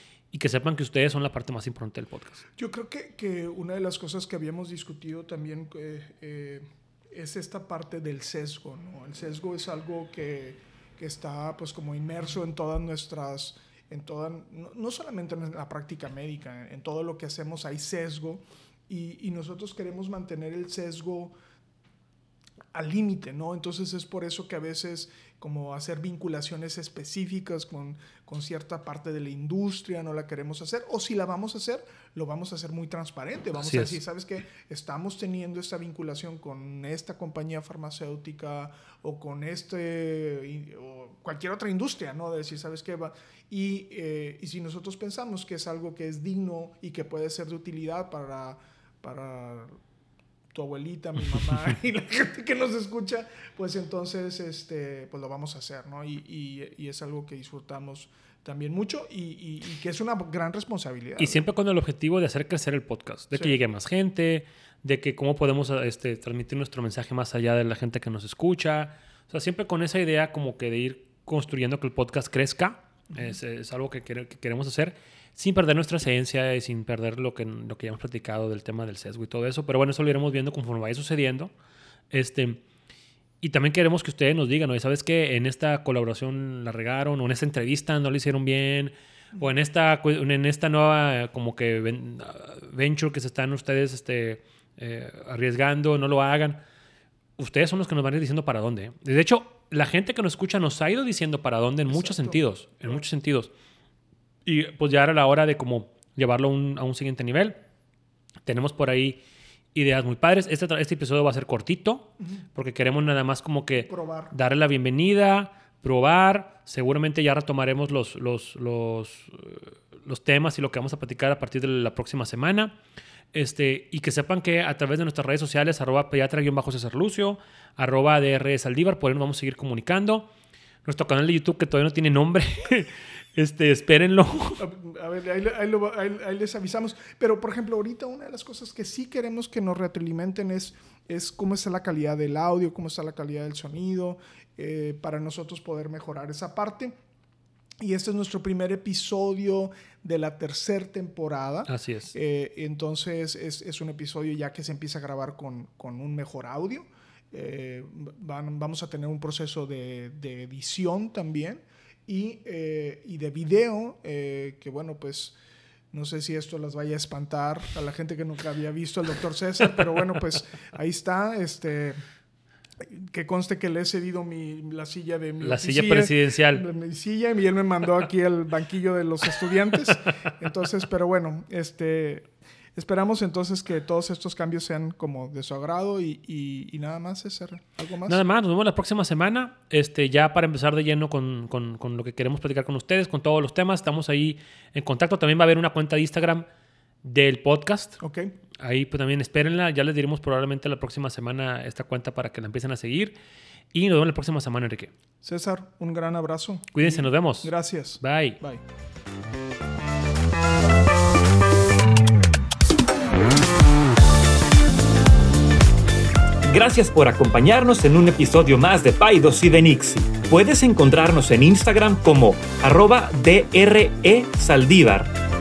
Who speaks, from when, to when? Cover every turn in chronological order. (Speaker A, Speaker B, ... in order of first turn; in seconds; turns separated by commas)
Speaker A: 0.3-2.4, Speaker B: 2.6-21.3, Speaker B: 22.7-49.7, Speaker A: 33.6-34.0, Speaker B: 50.5-61.5, Speaker A: 61.2-81.5, Speaker B: 63.3-63.6, Speaker A: 82.1-82.6, Speaker A: 83.4-96.6, Speaker A: 97.4-103.5, Speaker B: 101.9-103.0, Speaker A: 104.4-107.6, Speaker A: 108.4-109.2, Speaker A: 109.7-122.8, Speaker B: 113.8-114.3, Speaker A: 123.3-130.3, Speaker A: 130.8-134.6, Speaker B: 134.6-146.9, Speaker B: 147.8-165.3, Speaker A: 151.7-152.1, Speaker B: 165.9-172.0, Speaker B: 172.8-188.2, Speaker A: 175.4-176.7, Speaker A: 188.1-196.4, Speaker A: 197.0-198.0, Speaker B: 198.0-198.3, Speaker A: 198.6-203.2, Speaker A: 203.7-204.9, Speaker B: 205.2-208.6, Speaker A: 206.7-208.4, Speaker C: 216.4-225.1